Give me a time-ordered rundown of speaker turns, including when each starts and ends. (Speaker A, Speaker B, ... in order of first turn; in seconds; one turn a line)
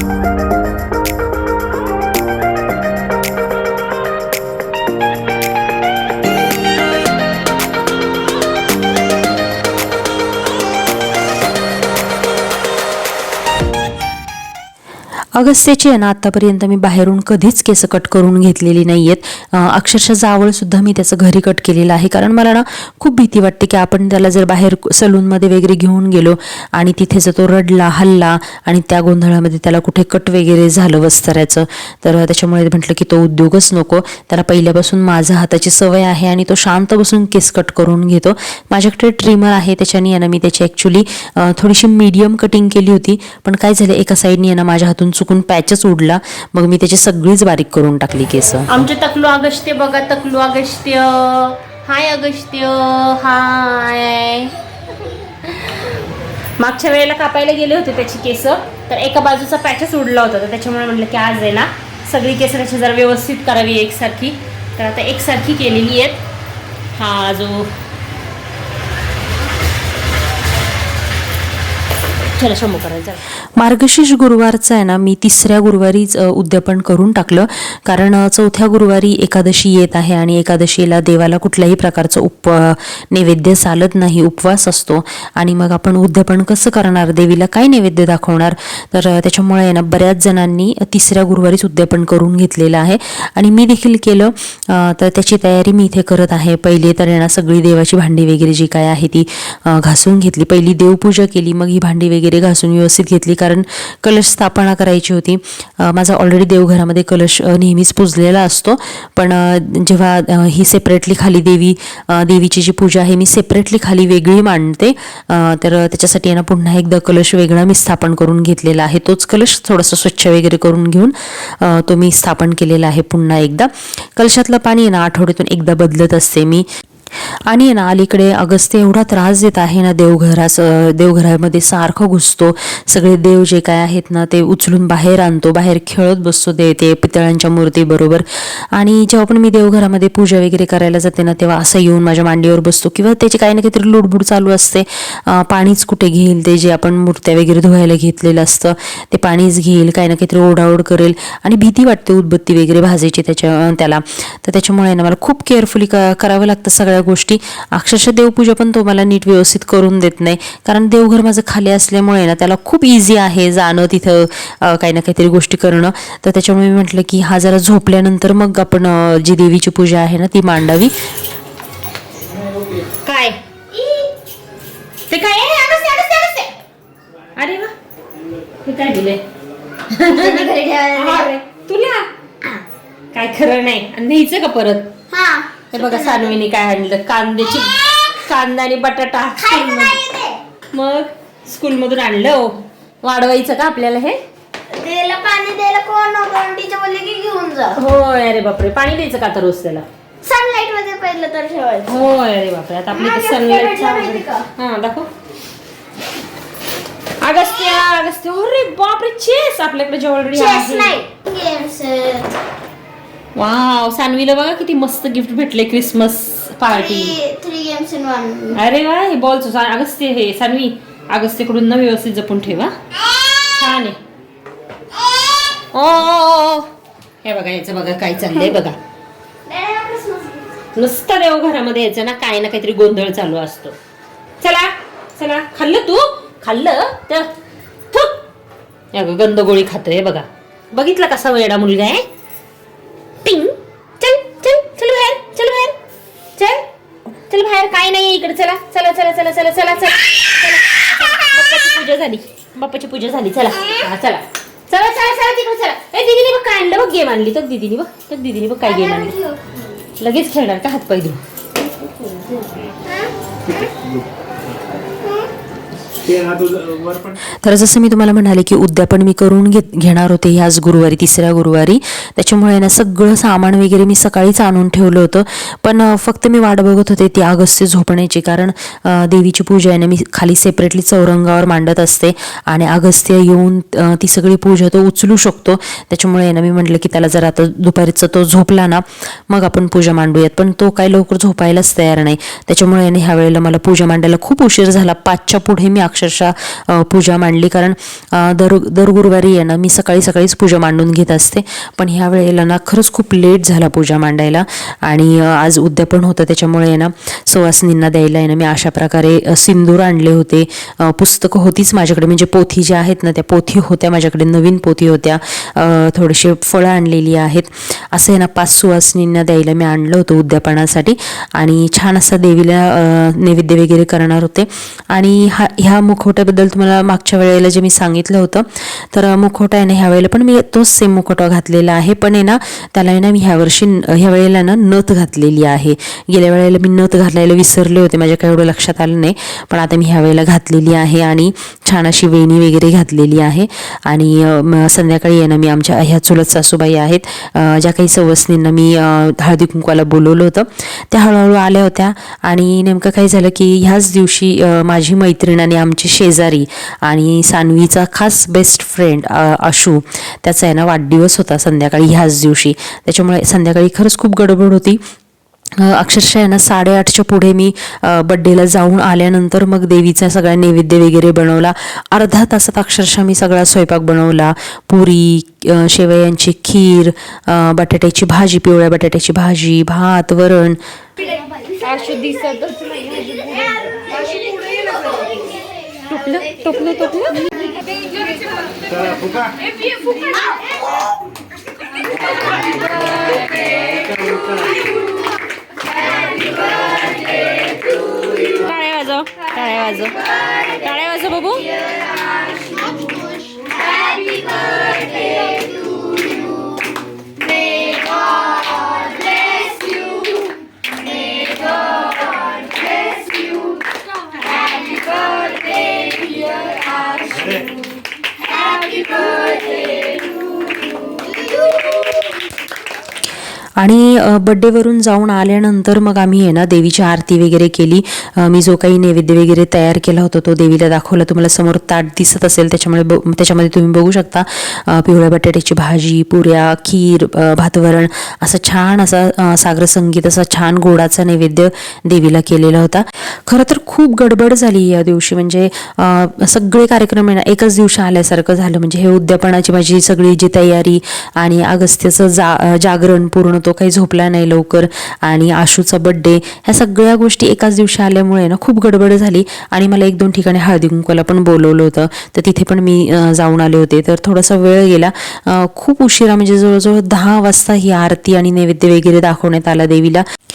Speaker A: 15.3-48.7
Speaker B: 48.7-54.6
Speaker B: 55.4-56.0
Speaker B: 56.6-66.2
Speaker B: 66.9-67.7
Speaker B: 72.3-73.2
Speaker A: 73.6-126.7
Speaker A: 127.5-170.9
Speaker B: 173.0-173.4
Speaker C: 173.7-174.1
Speaker B: 175.1-176.0
Speaker C: 175.6-176.5
Speaker B: 177.4-177.7
Speaker B: 178.6-179.2
Speaker B: 179.9-182.1
Speaker C: 180.0-181.3
Speaker B: 183.1-185.0
Speaker C: 185.1-186.3
Speaker B: 185.7-190.0
Speaker C: 189.4-190.4
Speaker B: 190.7-194.2
Speaker C: 194.7-197.8
Speaker B: 197.8-199.8
Speaker C: 200.2-201.9
Speaker B: 201.9-205.1
Speaker C: 202.9-204.5
Speaker B: 207.2-211.0
Speaker C: 210.3-212.4
Speaker B: 213.3-217.2
Speaker C: 216.7-218.6
Speaker B: 218.5-222.7
Speaker B: 223.4-224.0
Speaker B: 225.7-226.7
Speaker B: 227.2-228.8
Speaker C: 229.5-230.6
Speaker B: 230.7-233.8
Speaker B: 234.4-237.3
Speaker B: 237.9-238.2
Speaker B: 238.9-242.1
Speaker B: 243.2-245.8
Speaker B: 246.4-246.7
Speaker B: 247.3-259.2
Speaker C: 258.8-259.7
Speaker B: 260.0-261.2
Speaker C: 262.9-263.1
Speaker C: 265.0-265.3
Speaker D: 266.1-267.1
Speaker A: 267.3-364.8
Speaker A: 365.6-380.6
Speaker B: 381.6-384.3
Speaker B: 385.9-387.5
Speaker D: 388.7-389.3
Speaker D: 393.9-394.5
Speaker B: 398.0-401.7
Speaker C: 402.8-404.4
Speaker C: 408.8-409.7
Speaker C: 412.5-413.3
Speaker C: 415.1-415.4
Speaker C: 418.7-419.6
Speaker C: 421.2-421.9
Speaker A: 423.6-470.0